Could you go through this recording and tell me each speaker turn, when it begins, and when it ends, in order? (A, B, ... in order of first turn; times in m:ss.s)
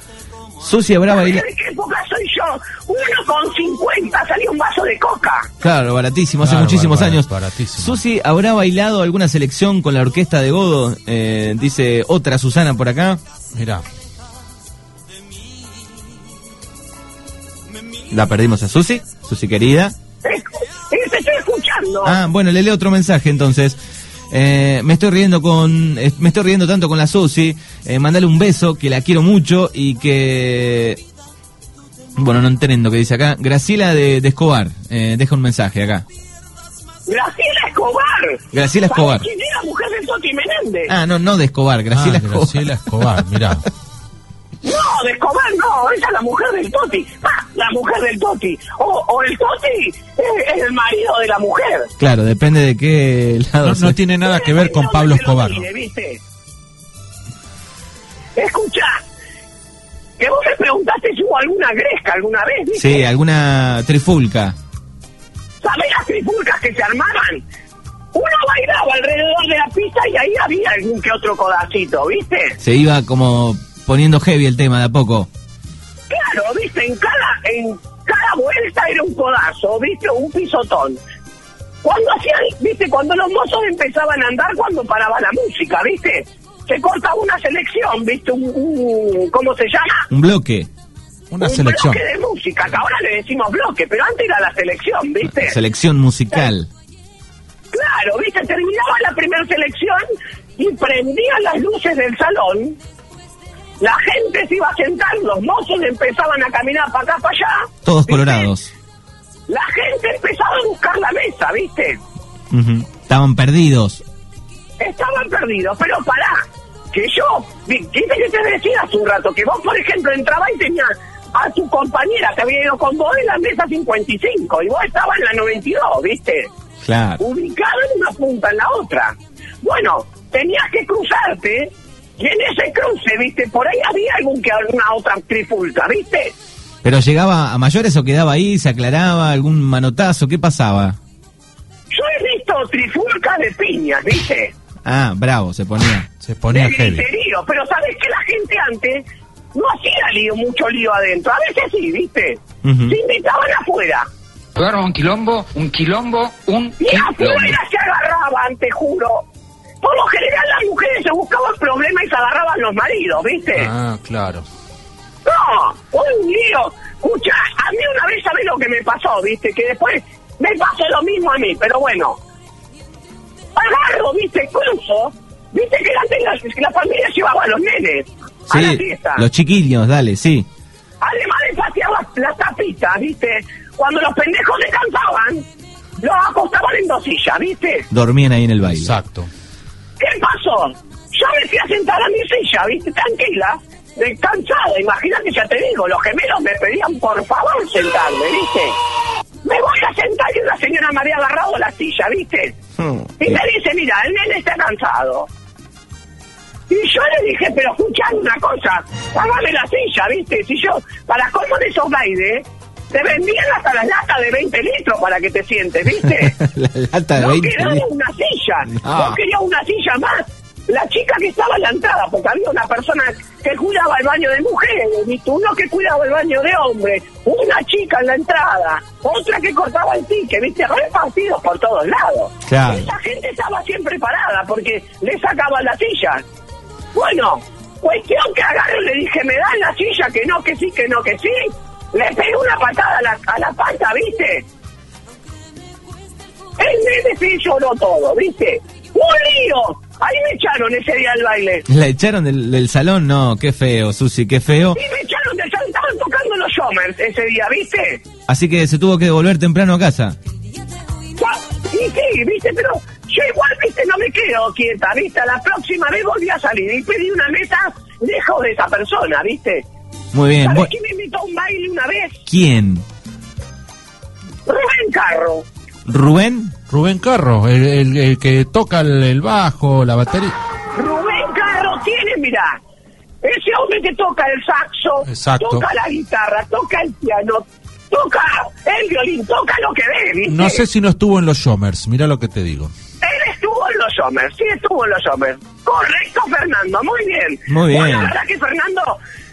0:00.6-0:01.4 A
0:01.1-0:05.5 B
0:05.6-0:13.2 A
0:06.4-0:08.0 C
0:13.5-0:13.8 C
0:18.1-0:19.9 A
0:20.2-0:22.2 B
0:22.0-0:23.8 A
0:24.3-0:31.0 A
0:32.2-0:36.0 A
0:37.1-0:40.9 B
0:38.5-0:39.2 A
0:40.9-0:43.1 A
0:41.9-0:43.6 C
0:44.6-0:51.9 B
0:52.0-0:54.0 A
0:53.6-0:55.6 C
0:54.2-0:56.2 B
0:58.4-0:59.0 B
1:00.2-1:03.1 B
1:02.7-1:04.5 A
1:05.6-1:07.4 B
1:08.1-1:12.6 B
1:12.6-1:15.3 A
1:16.1-1:21.0 B
1:21.8-1:30.1 B
1:30.1-1:30.7 A
1:31.3-1:32.0 C
1:31.4-1:35.6 B
1:35.3-1:36.7 A
1:37.7-1:42.8 B
1:43.8-1:48.5 B
1:47.8-1:48.7 A
1:49.5-1:52.0 B
1:52.5-1:54.0 A
1:54.8-2:06.5 B
2:06.8-2:07.2 A
2:07.2-2:16.3 B
2:16.8-2:21.0 A
2:21.9-2:24.5 B
2:24.8-2:26.1 A
2:26.2-2:27.0 C
2:26.5-2:34.1 B
2:32.6-2:33.0 A
2:34.5-2:37.6 D
2:36.8-2:39.2 B
2:39.8-2:43.7 B
2:43.5-2:44.4 C
2:45.2-2:52.2 B
2:53.6-2:59.2 B
2:58.5-3:00.5 A
3:01.0-3:05.4 B
3:06.0-3:07.9 B
3:07.9-3:08.9 A
3:08.6-3:09.3 C
3:10.0-3:18.8 B
3:19.4-3:22.6 B
3:22.8-3:23.4 A
3:23.2-3:25.3 B
3:26.7-3:36.4 B
3:36.2-3:37.8 A
3:37.2-3:56.2 B
3:38.8-3:39.2 A
3:52.4-3:52.9 A
3:56.9-4:04.4 B
4:06.6-4:11.6 B
4:11.7-4:14.8 A
4:14.7-4:18.0 B
4:18.3-4:20.2 A
4:21.2-4:29.6 B
4:30.1-4:30.7 A
4:30.4-4:32.2 B
4:32.2-4:32.8 A
4:34.5-4:35.4 B
4:35.8-4:36.5 A
4:36.7-4:40.4 C
4:40.8-4:42.6 B
4:43.2-4:50.6 B
4:45.0-4:45.6 C
4:50.2-4:52.7 C
4:53.0-4:59.0 B
4:57.5-4:58.1 A